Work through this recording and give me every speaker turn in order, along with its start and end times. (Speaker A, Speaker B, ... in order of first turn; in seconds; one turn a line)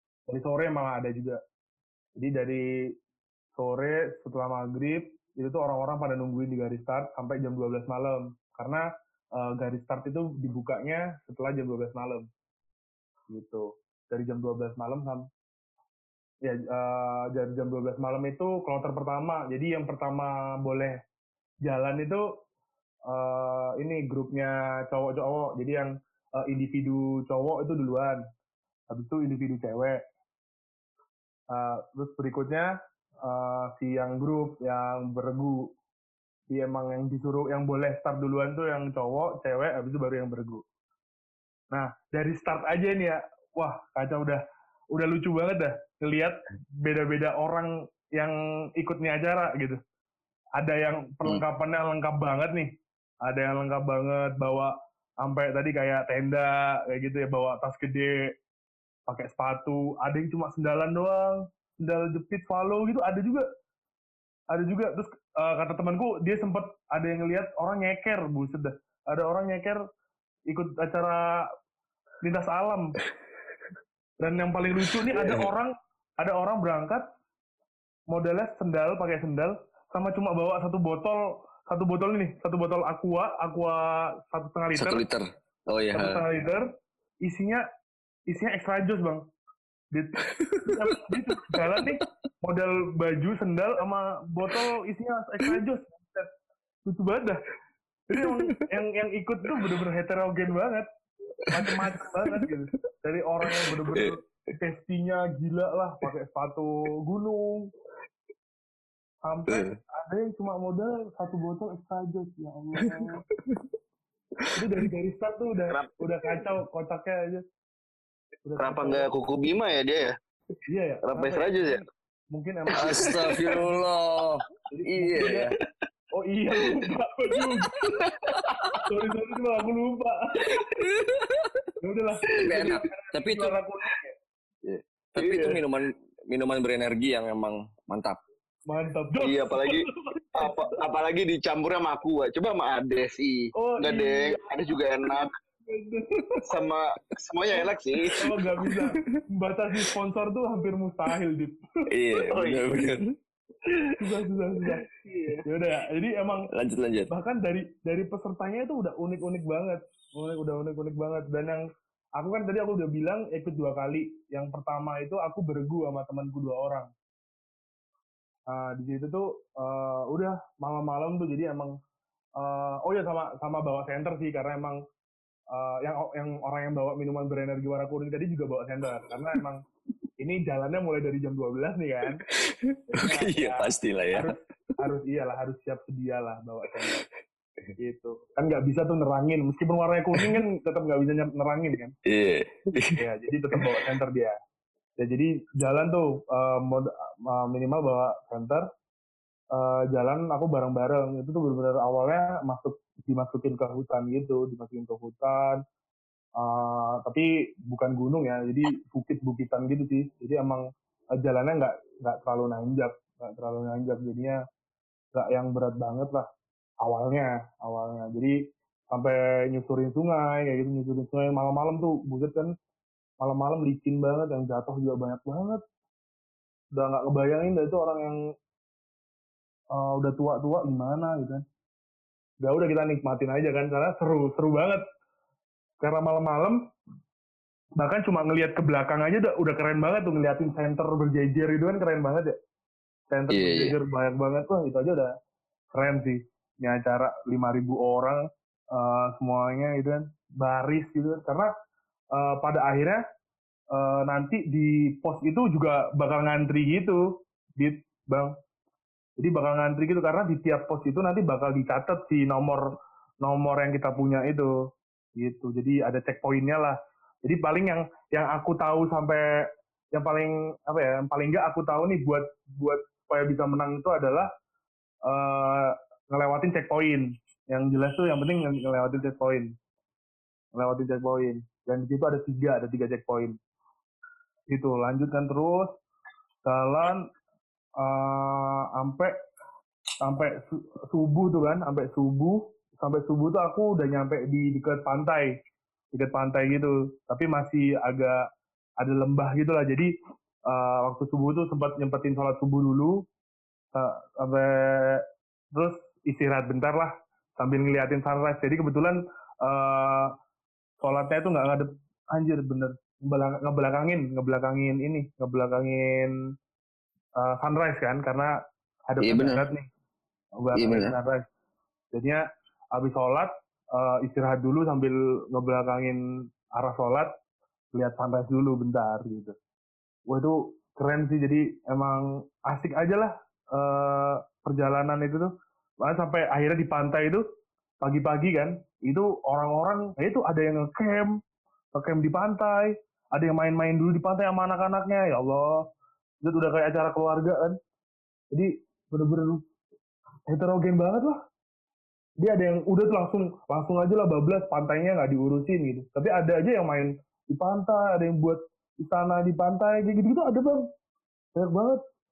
Speaker A: 0.3-1.4
Speaker A: 2.2-2.6
Speaker A: 3.5-12.3
Speaker A: 13.3-15.3
Speaker A: 16.4-21.0
Speaker A: 21.6-22.2
Speaker A: 23.1-28.2
Speaker A: 28.9-30.0
Speaker A: 31.5-32.7
Speaker A: 33.2-35.7
Speaker A: 36.5-40.6
Speaker A: 41.7-49.8
Speaker A: 50.5-52.7
Speaker A: 53.2-58.3
Speaker A: 59.1-63.5
Speaker A: 64.5-69.8
Speaker A: 70.5-71.5
Speaker A: 72.2-73.0
Speaker A: 74.2-77.0
Speaker B: 75.1-75.5
Speaker A: 78.1-85.0
Speaker B: 84.7-86.2
Speaker A: 85.9-86.6
Speaker A: 87.2-87.6
Speaker A: 88.3-89.2
Speaker A: 89.9-96.3
Speaker B: 90.3-92.0
Speaker A: 96.8-97.5
Speaker A: 98.1-100.9
Speaker B: 98.2-98.6
Speaker B: 101.4-102.5
Speaker A: 101.5-107.7
Speaker B: 103.4-104.2
Speaker A: 109.2-113.3
Speaker B: 109.5-109.8
Speaker B: 112.8-113.6
Speaker B: 114.4-114.9
Speaker A: 114.5-117.4
Speaker C: 115.7-115.9
Speaker A: 118.4-119.1
Speaker C: 118.6-120.1
Speaker A: 120.7-123.7
Speaker C: 121.0-121.8
Speaker B: 122.7-125.5
Speaker C: 122.8-123.3
Speaker A: 124.7-125.5
Speaker A: 126.1-128.2
Speaker B: 128.0-128.4
Speaker A: 128.8-130.7
Speaker B: 130.4-131.7
Speaker A: 131.8-134.1
Speaker B: 132.4-133.5
Speaker B: 134.6-138.2
Speaker C: 135.2-135.5
Speaker A: 135.2-135.6
Speaker A: 138.7-140.8
Speaker C: 139.2-145.3
Speaker A: 143.5-144.4
Speaker A: 145.0-146.4
Speaker C: 146.4-148.2
Speaker A: 148.1-151.9
Speaker B: 148.6-149.2
Speaker B: 151.9-153.1
Speaker C: 152.1-152.8
Speaker A: 153.9-154.8
Speaker C: 154.9-155.4
Speaker A: 155.4-156.5
Speaker B: 156.5-157.1
Speaker A: 157.1-161.6
Speaker A: 162.2-166.9
Speaker A: 168.5-171.7
Speaker A: 172.4-174.8
Speaker A: 175.5-179.6
Speaker A: 180.2-182.2
Speaker B: 182.3-184.3
Speaker A: 182.9-187.1
Speaker A: 187.8-191.9
Speaker B: 190.1-190.4
Speaker B: 192.1-193.0
Speaker A: 193.0-194.3
Speaker B: 193.5-193.8
Speaker A: 195.0-198.6
Speaker A: 199.5-205.6
Speaker A: 206.4-210.6
Speaker A: 211.2-214.4
Speaker A: 215.1-216.2
Speaker A: 216.8-218.4
Speaker A: 218.9-222.5
Speaker A: 223.2-225.6
Speaker A: 226.7-228.2
Speaker A: 229.7-231.4
Speaker A: 232.4-234.8
Speaker A: 235.8-236.6
Speaker A: 237.8-242.3
Speaker A: 243.1-245.1
Speaker B: 243.3-243.8
Speaker A: 245.7-251.5
Speaker A: 252.1-253.0
Speaker A: 253.7-258.3
Speaker A: 259.2-264.5
Speaker A: 265.2-269.2
Speaker A: 269.9-274.3
Speaker A: 275.1-279.5
Speaker A: 280.5-283.4
Speaker A: 284.5-285.8
Speaker A: 286.4-287.1
Speaker A: 287.8-289.1
Speaker A: 290.0-295.3
Speaker A: 295.9-298.2
Speaker A: 298.8-299.9
Speaker A: 300.5-303.0
Speaker A: 303.7-310.1
Speaker A: 310.8-316.1
Speaker A: 317.2-318.3
Speaker A: 318.9-319.7
Speaker B: 319.0-319.4
Speaker A: 320.4-321.2
Speaker B: 320.5-320.9
Speaker A: 321.9-322.2
Speaker A: 322.7-326.0
Speaker A: 326.5-327.1
Speaker A: 327.7-329.3
Speaker A: 330.1-335.3
Speaker A: 335.8-337.2
Speaker A: 337.8-341.2
Speaker A: 341.7-345.5
Speaker A: 346.2-347.6
Speaker A: 348.3-349.4
Speaker A: 350.3-351.1
Speaker A: 352.2-360.7
Speaker A: 361.3-361.8